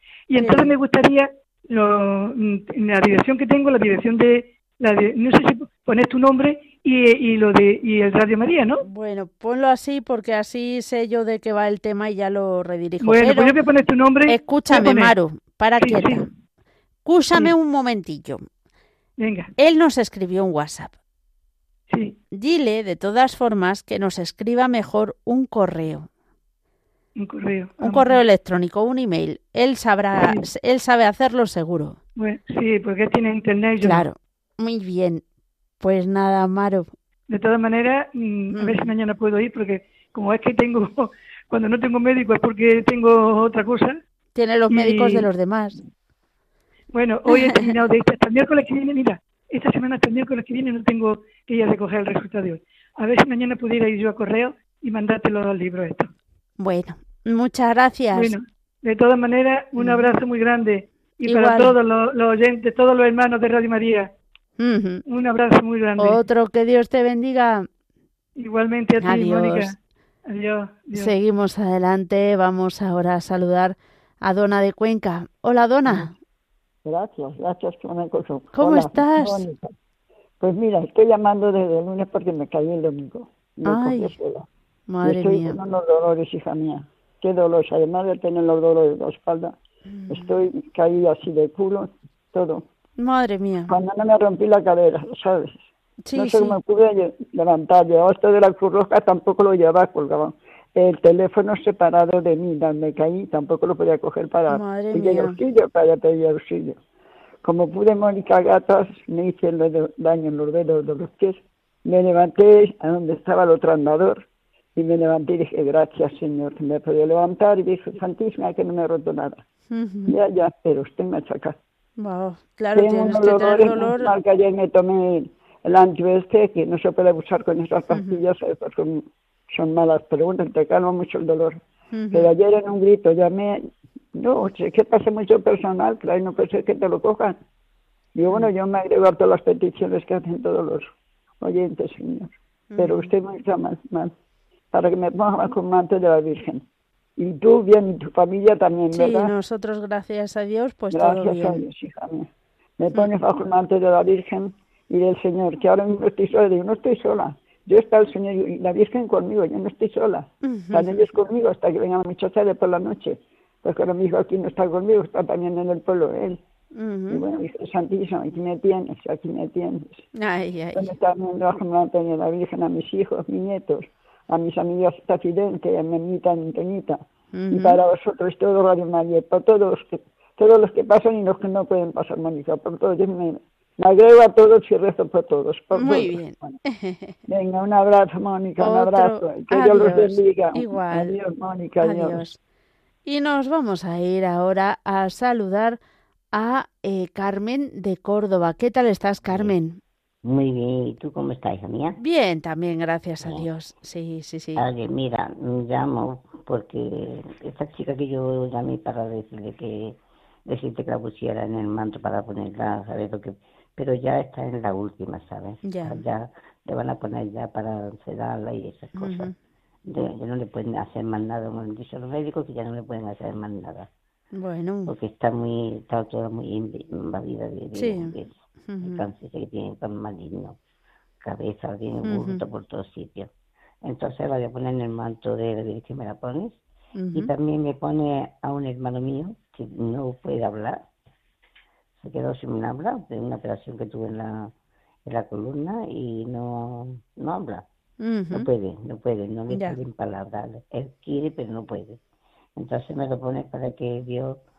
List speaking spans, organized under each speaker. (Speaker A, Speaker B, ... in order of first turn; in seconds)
Speaker A: 0.3-8.8, 13.0-15.1, 15.8-16.3, 19.2-19.5, 21.9-22.1, 27.1-28.2, 30.2-30.4, 32.2-34.1, 37.3-44.0, 44.7-45.3, 46.9-56.1, 58.1-64.1, 65.1-66.2, 68.4-69.8, 70.3-71.1
Speaker B: 0.4-0.7, 8.8-13.5, 14.3-16.3, 17.0-18.4, 19.6-20.9, 22.3-26.1, 27.8-32.0, 33.8-35.2, 35.8-36.9, 38.5-38.9, 44.3-45.8, 47.4-47.7, 56.6-58.3, 59.8-60.1, 61.3-61.8, 64.6-65.0, 66.0-67.7, 69.0-69.7, 70.9-76.1, 78.5-79.5, 83.7-84.1, 84.9-85.6, 89.9-90.4, 93.0-93.7, 96.0-96.5, 104.5-105.4, 119.7-120.1, 122.0-124.1, 127.9-128.2, 131.9-132.3, 142.7-143.1, 148.9-151.6, 160.4-161.1, 166.7-167.2, 170.2-170.9, 177.3-177.8, 185.7-187.2, 188.6-191.1, 191.8-192.4, 193.1-195.8, 196.3-199.8, 202.0-204.6, 215.7-216.0, 219.0-219.3, 224.4-224.9, 227.8-228.1, 228.7-229.0, 232.0-232.4, 236.9-237.3, 248.0-248.5, 249.5-249.8
Speaker C: 76.8-79.7, 80.4-84.5, 85.0-89.5, 90.1-92.6, 93.7-95.6, 96.1-106.8, 107.4-114.2, 114.8-119.4, 120.1-121.6, 122.7-131.6, 132.1-133.6, 134.1-137.4, 138.1-140.9, 141.4-144.1, 144.7-146.6, 147.2-149.3, 150.9-152.3, 152.8-166.4, 167.1-170.0, 170.7-177.0, 177.5-186.6, 187.3-192.2
Speaker D: 200.2-202.0, 204.6-209.9, 210.5-219.3, 219.9-223.9, 224.9-230.6, 231.2-233.3, 233.8-236.6, 237.1-240.8, 242.0-244.5, 245.1-247.6, 248.3-252.0, 252.6-254.4